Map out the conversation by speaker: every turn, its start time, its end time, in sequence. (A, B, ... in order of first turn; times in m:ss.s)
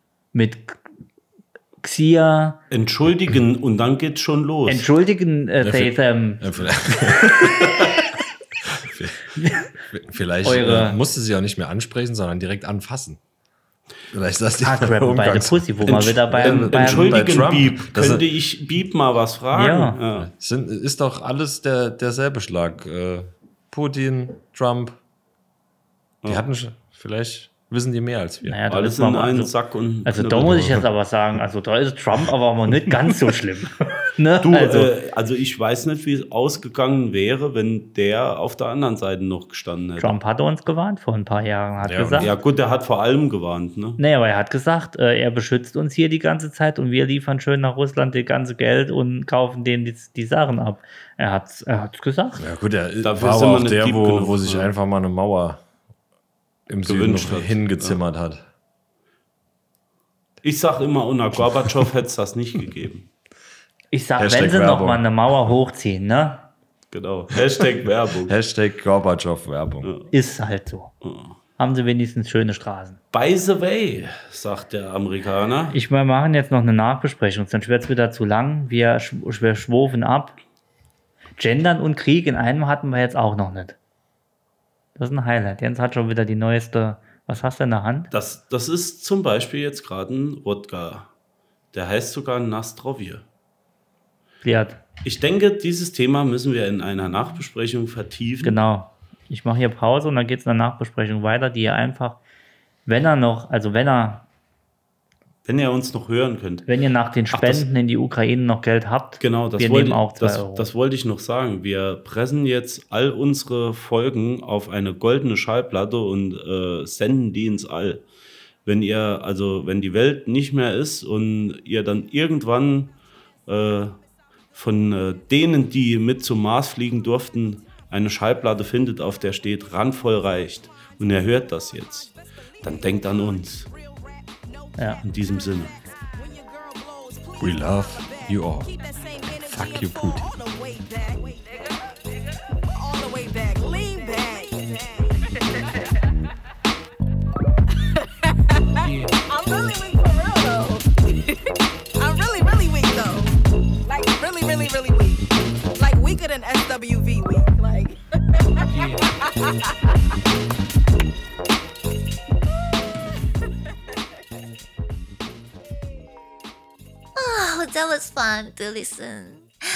0:00.3-0:00.8 A
0:01.8-0:02.6 A
0:02.7-0:04.9 B
0:04.7-0:07.8 A
0:05.6-0:08.1 C
0:08.7-0:13.2 C
0:09.3-0:09.7 A
0:10.4-0:11.0 A
0:14.1-0:18.2 C
0:14.6-0:17.2 A
0:15.9-0:20.3 B
0:19.5-0:20.0 A
0:20.2-0:25.0 C
0:26.2-0:28.6 C
0:28.4-0:29.5 A
0:28.7-0:30.8 B
0:30.0-0:34.9 A
0:30.3-0:30.8 C
0:34.4-0:40.2 B
0:40.0-0:42.3 A
0:41.8-0:42.3 C
0:42.2-0:44.0 B
0:44.0-0:52.4 A
0:52.4-0:55.6 C
0:53.0-0:54.7 B
0:56.7-0:58.4 C
0:56.8-0:58.0 B
1:00.4-1:03.1 B
1:03.9-1:06.5 A
1:04.2-1:05.0 C
1:06.9-1:08.3 B
1:08.2-1:09.9 C
1:09.8-1:10.1 B
1:10.1-1:10.9 A
1:11.0-1:11.3 B
1:11.6-1:13.0 A
1:13.1-1:15.8 B
1:15.7-1:20.4 A
1:21.4-1:23.8 A
1:25.0-1:28.1 A
1:28.1-1:31.1 B
1:31.7-1:33.2 B
1:34.4-1:34.8 A
1:35.0-1:38.6 B
1:38.4-1:42.2 A
1:42.8-1:44.2 A
1:45.4-1:46.7 B
1:46.7-1:50.7 A
1:47.3-1:47.6 B
1:49.2-1:58.0 B
1:58.6-2:02.9 B
2:03.5-2:04.0 B
2:04.5-2:12.1 B
2:12.6-2:13.7 B
2:12.6-2:15.0 D
2:14.8-2:15.0 A
2:15.0-2:15.7 B
2:15.7-2:22.1 D
2:17.4-2:18.7 C
2:19.4-2:20.3 C
2:22.7-2:26.0 D
2:27.8-2:39.8 D
2:47.2-2:49.5 E